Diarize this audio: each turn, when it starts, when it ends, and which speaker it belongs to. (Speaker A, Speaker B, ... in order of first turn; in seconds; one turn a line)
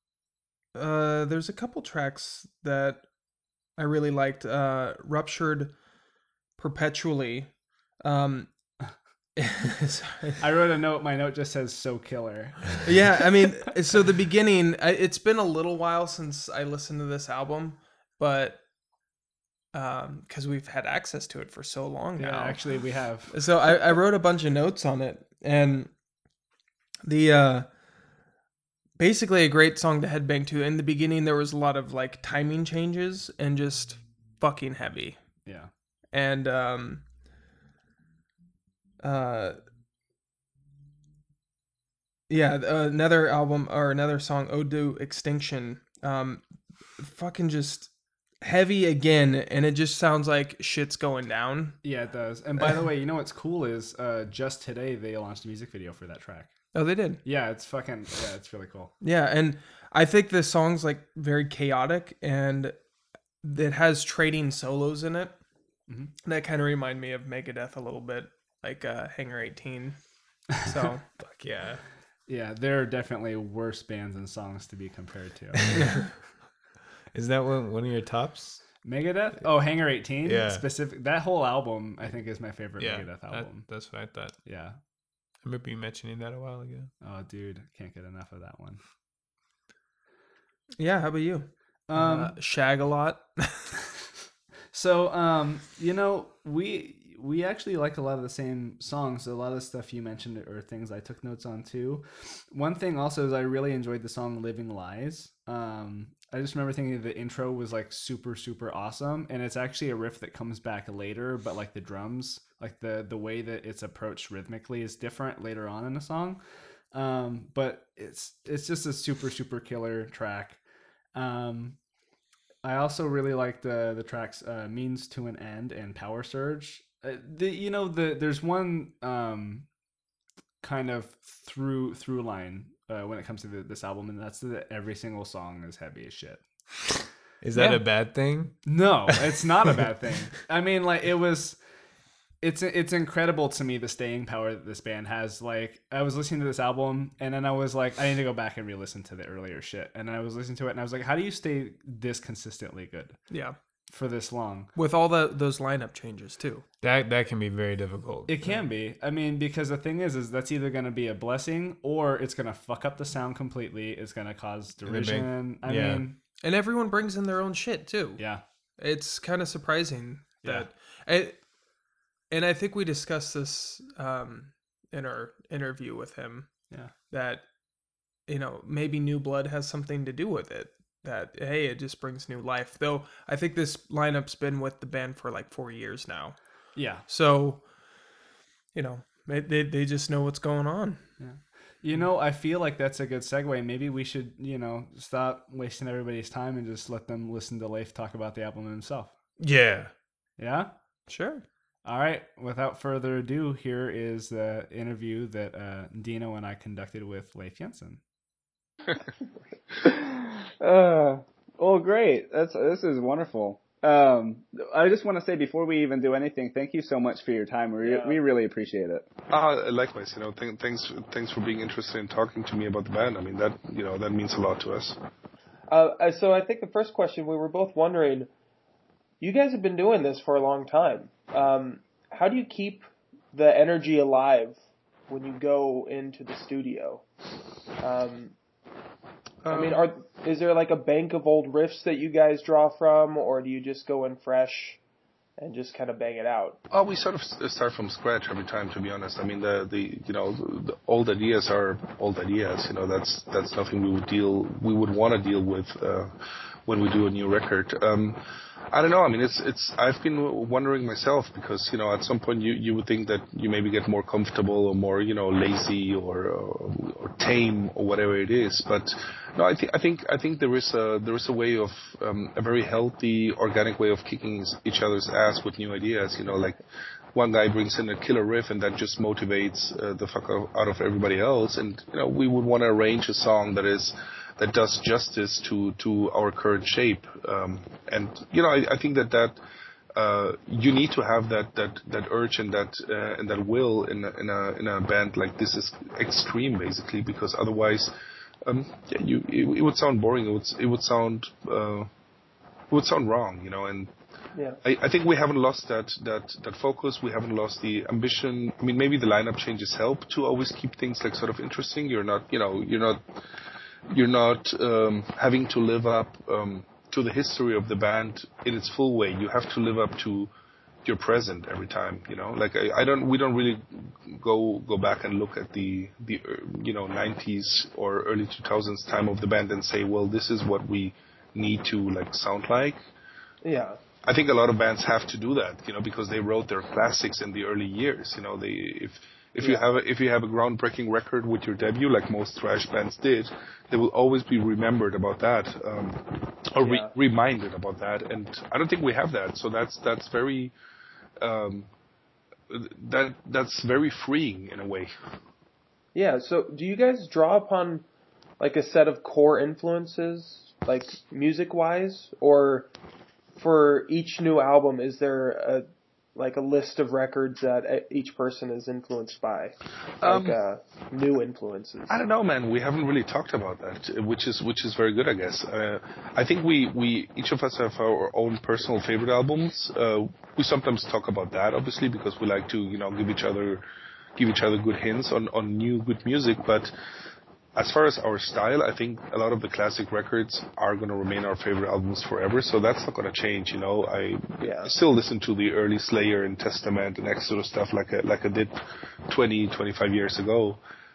Speaker A: 0.8-3.1
Speaker A: 3.7-5.8
Speaker A: 6.6-8.6
Speaker A: 9.4-10.4
Speaker B: 10.4-12.9
Speaker A: 12.8-18.6
Speaker A: 19.7-25.9
Speaker B: 22.2-23.4
Speaker A: 27.0-27.8
Speaker A: 29.0-35.4
Speaker A: 36.1-37.1
Speaker A: 39.0-39.6
Speaker A: 42.3-51.8
Speaker B: 51.8-56.5
Speaker A: 56.7-57.2
Speaker B: 57.2-58.9
Speaker A: 59.0-62.8
Speaker A: 63.4-65.4
Speaker B: 65.9-66.1
Speaker A: 66.2-71.1
Speaker C: 71.2-71.8
Speaker B: 72.3-76.0
Speaker C: 77.1-78.8
Speaker B: 78.8-84.8
Speaker C: 80.2-80.7
Speaker C: 82.8-84.4
Speaker C: 85.4-86.9
Speaker B: 87.0-88.8
Speaker A: 90.8-93.8
Speaker B: 91.9-92.4
Speaker B: 94.7-116.4
Speaker B: 116.9-120.6
Speaker B: 121.2-121.8
Speaker B: 122.6-129.7
Speaker B: 130.6-136.4
Speaker C: 137.4-139.4
Speaker B: 138.7-141.6
Speaker B: 142.4-153.2
Speaker A: 153.3-153.6
Speaker B: 153.9-154.7
Speaker A: 154.8-156.7
Speaker C: 156.8-158.7
Speaker B: 158.3-166.2
Speaker C: 164.8-166.1
Speaker A: 166.4-171.5
Speaker B: 170.4-170.7
Speaker A: 172.3-177.5
Speaker A: 178.2-188.1
Speaker B: 186.8-187.1
Speaker A: 188.7-191.1
Speaker B: 191.2-199.1
Speaker C: 199.4-199.9
Speaker B: 200.4-200.7
Speaker A: 201.1-201.4
Speaker B: 201.8-208.0
Speaker D: 209.8-219.1
Speaker E: 217.8-218.2
Speaker F: 219.3-225.0
Speaker E: 225.7-228.3
Speaker E: 229.2-237.1
Speaker E: 237.8-238.3
Speaker F: 239.4-239.9
Speaker E: 239.5-244.8
Speaker E: 245.4-246.6
Speaker F: 246.7-256.1
Speaker F: 256.7-258.2
Speaker F: 258.7-276.6
Speaker F: 277.1-289.4
Speaker F: 289.9-297.9
Speaker F: 298.4-301.9
Speaker F: 302.7-303.9
Speaker F: 304.6-313.0
Speaker F: 313.9-320.3
Speaker F: 320.9-332.8
Speaker E: 333.4-333.8
Speaker F: 334.0-350.5
Speaker E: 339.4-339.6
Speaker E: 346.6-346.9
Speaker F: 351.2-351.7
Speaker F: 352.5-354.9
Speaker E: 355.9-357.9
Speaker E: 358.4-362.7
Speaker E: 363.4-372.0
Speaker F: 370.0-370.4
Speaker F: 371.9-383.6
Speaker F: 384.2-386.7
Speaker F: 387.6-400.6
Speaker E: 394.4-394.8